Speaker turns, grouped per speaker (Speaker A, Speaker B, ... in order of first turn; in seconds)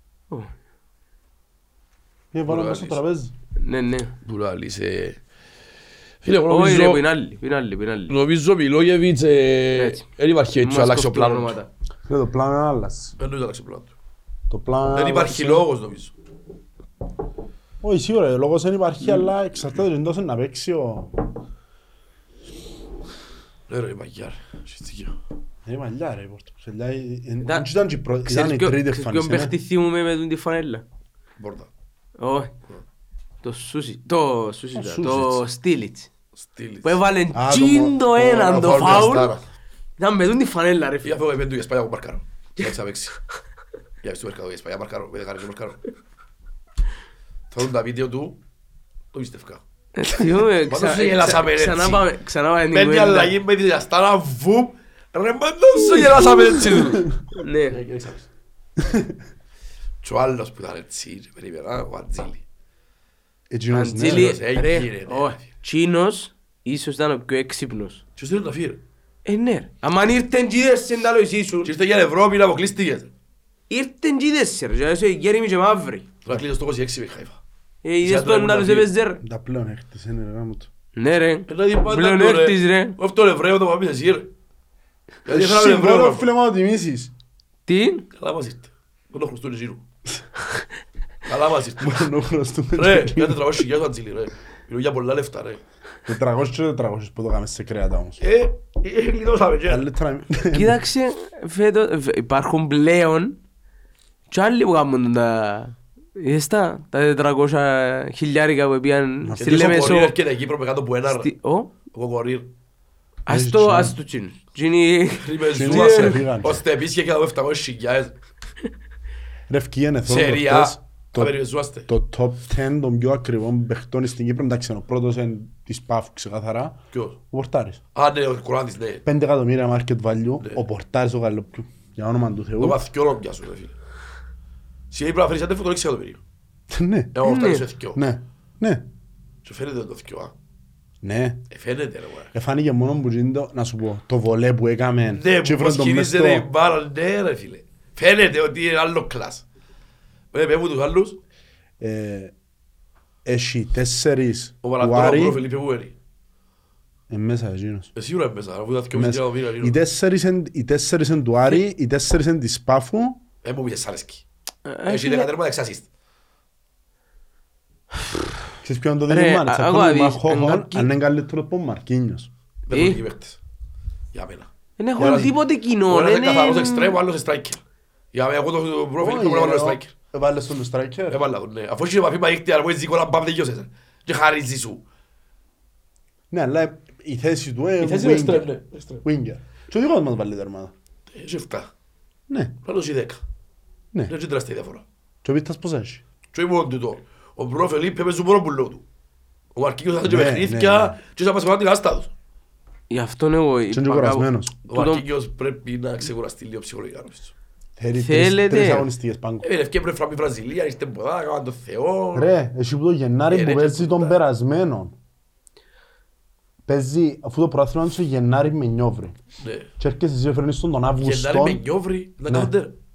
Speaker A: 2.3-3.3, 12.1-13.2, 14.5-15.7, 17.8-21.3, 25.7-29.5, 34.8-35.4, 37.3-39.3, 58.8-59.1, 63.5-64.4, 79.2-80.7, 85.3-87.1, 91.8-93.7, 96.1-98.2, 99.7-100.8, 109.2-109.7, 113.3-114.0, 115.5-116.6, 119.5-121.4, 121.9-126.8, 127.3-127.8, 129.1-132.8, 136.7-137.2, 137.9-138.9, 141.0-141.4, 142.3-146.5, 151.8-152.3, 153.2-155.4, 157.1-157.9, 158.9-163.2, 168.6-172.3, 175.0-175.3, 179.0-181.2, 186.3-188.5, 189.0-190.7, 192.3-192.6, 195.2-196.0, 200.1-201.0, 203.7-204.6, 207.8-209.5, 212.1-214.9, 216.7-219.2, 219.8-221.6, 222.3-222.5
Speaker B: 2.5-3.0, 4.2-5.2, 6.2-7.0, 8.1-11.6, 13.2-13.9, 14.9-16.1, 23.7-25.1, 31.4-31.7, 36.4-37.0, 38.3-39.4, 41.0-43.2, 44.0-45.8, 47.5-48.4, 49.1-49.6, 50.7-52.1, 52.7-57.1, 57.7-58.3, 60.0-62.4, 64.0-65.4, 68.2-68.8, 71.6-73.1, 76.2-77.4, 78.0-78.9, 81.5-84.3, 85.2-86.3, 88.2-89.8, 91.3-92.1, 92.8-95.6, 98.2-99.8, 109.4-111.3, 111.9-112.5, 115.2-118.1, 120.1-121.9, 128.0-129.1, 132.6-133.8, 134.9-136.2, 137.2-138.0, 139.4-140.3, 141.5-142.3, 145.1-149.4, 150.3-151.2, 154.6-155.9, 157.9-159.8, 163.4-164.2, 164.9-165.9, 172.7-173.4, 174.1-175.3, 175.9-177.6, 178.1-179.9, 181.1-184.8, 187.8-189.1, 191.1-191.7, 192.7-193.2, 194.1-194.8, 196.3-198.8, 199.6-202.1, 204.7-207.3, 209.4-212.3, 213.3-214.2, 219.4-219.7, 221.0-222.8
Speaker C: 3.6-4.1, 6.5-8.1, 9.7-10.0, 10.6-11.7, 28.2-30.8, 32.2-32.5, 33.4-36.1, 36.8-39.3, 40.0-41.2, 50.0-53.3, 55.9-56.9, 57.4-57.8, 63.7-68.0, 69.2-71.7, 73.7-76.1, 77.8-79.2, 81.0-83.0, 87.7-88.1, 100.5-103.4, 104.3-110.2, 111.1-111.7, 113.3-116.2, 137.2-137.7, 164.7-165.3, 169.1-170.9, 172.7-173.0, 174.8-177.0, 202.9-205.0, 207.9-208.9